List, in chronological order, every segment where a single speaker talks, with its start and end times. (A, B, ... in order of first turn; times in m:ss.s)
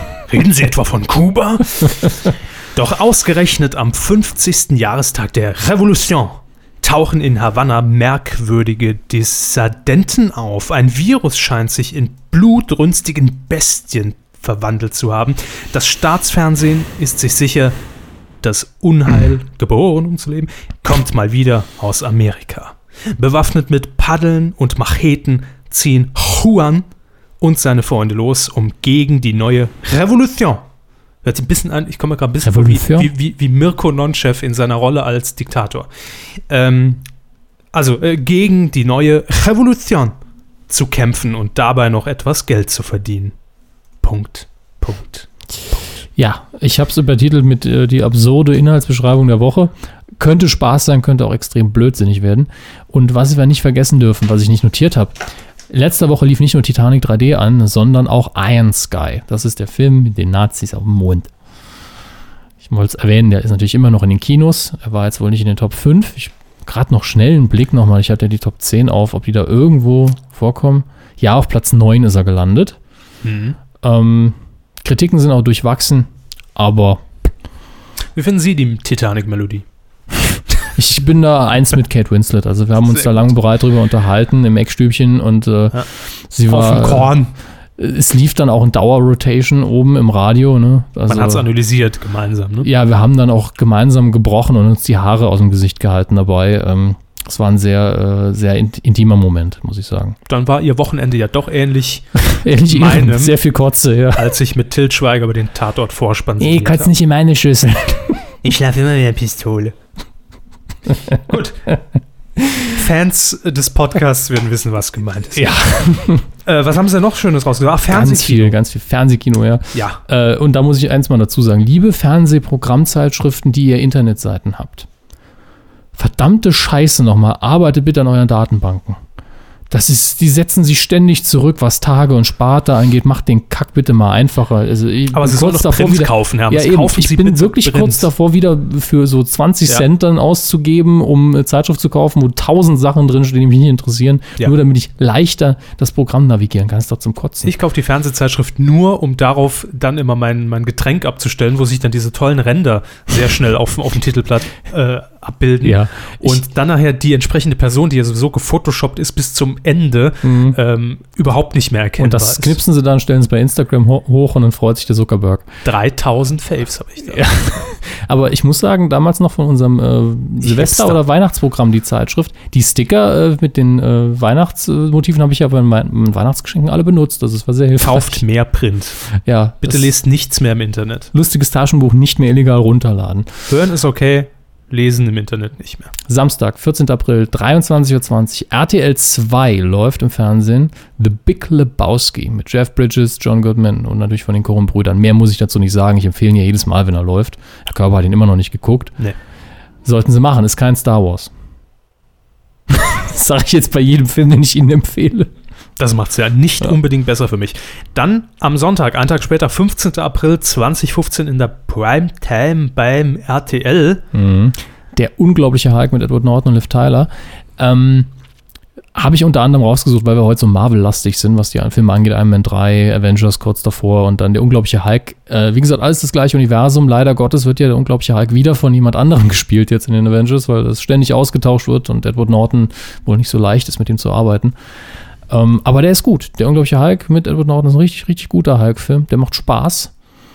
0:00.3-0:17.8 A
0:18.4-0:26.9 A
0:27.4-0:30.7 A
0:31.2-0:35.9 A
0:32.4-0:33.1 B
0:36.5-0:37.0 A
0:37.7-0:40.1 A
0:40.7-0:43.4 A
0:44.0-0:45.8 A
0:46.2-1:01.3 B
1:02.6-1:12.8 B
1:13.2-1:13.6 A
1:13.8-1:17.3 B
1:18.2-1:19.6 A
1:20.8-1:27.2 B
1:22.9-1:23.2 A
1:26.5-1:27.3 A
1:27.8-1:31.5 B
1:31.1-1:32.7 A
1:32.6-1:40.2 B
1:40.3-1:43.3 A
1:42.2-1:44.3 B
1:44.2-1:46.9 A
1:46.4-1:48.3 B
1:48.4-1:49.8 A
1:51.3-1:51.7 A
1:52.6-1:55.6 A
1:55.3-1:56.3 B
1:56.4-1:58.6 A
1:57.9-2:04.9 B
1:59.7-2:00.0 A
2:06.0-2:09.0 B
2:09.7-2:27.5 B
2:15.1-2:18.1 A
2:27.4-2:42.6 A
2:35.6-2:36.4 B
2:40.2-2:40.6 B
2:42.0-2:45.5 B
2:45.6-2:47.3 A
2:47.1-2:58.2 B
2:50.4-2:51.0 A
2:57.8-2:59.0 A
2:59.2-2:59.9 B
2:59.6-3:01.1 A
3:01.1-3:03.3 B
3:03.5-3:05.9 A
3:06.1-3:18.9 B
3:19.8-3:21.3 B
3:22.7-3:25.3 B
3:25.8-3:34.0 A
3:34.1-3:38.1 B
3:39.0-3:54.5 B
3:55.3-3:59.9 B